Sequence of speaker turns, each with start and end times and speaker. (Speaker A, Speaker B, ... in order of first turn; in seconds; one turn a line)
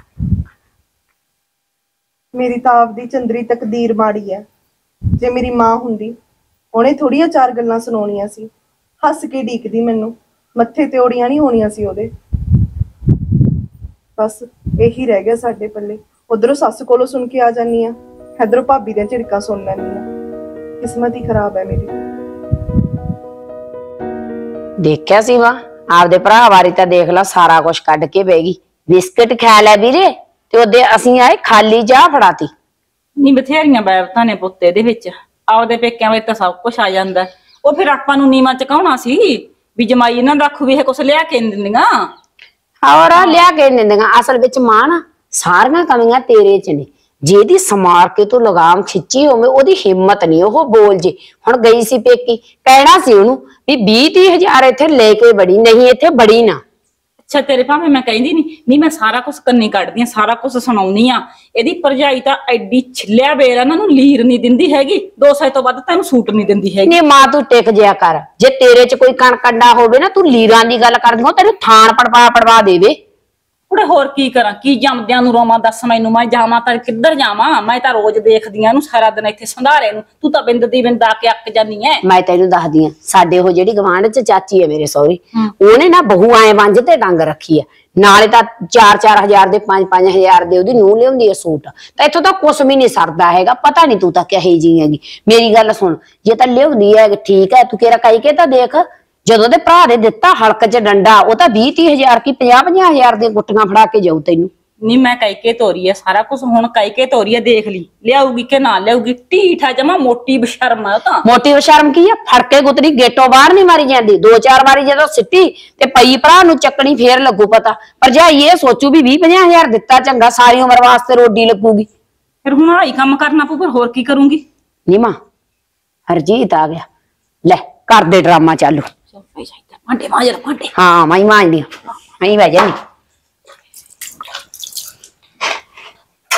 Speaker A: 2.3-4.4
Speaker A: 5.2-6.2
Speaker A: 6.7-8.5
Speaker A: 9.0-12.1
Speaker A: 14.2-20.1
Speaker A: 20.8-22.0
Speaker B: 24.8-32.5
Speaker C: 33.2-42.1
Speaker B: 42.8-56.6
Speaker C: 43.2-43.4
Speaker C: 57.3-67.0
Speaker B: 66.8-73.0
Speaker C: 73.7-82.0
Speaker B: 82.0-104.5
Speaker C: 104.8-111.2
Speaker B: 111.2-121.9
Speaker C: 122.4-124.4
Speaker B: 124.9-125.2
Speaker B: 126.1-126.8
Speaker B: 127.5-128.9
Speaker C: 129.2-130.7
Speaker B: 130.7-132.8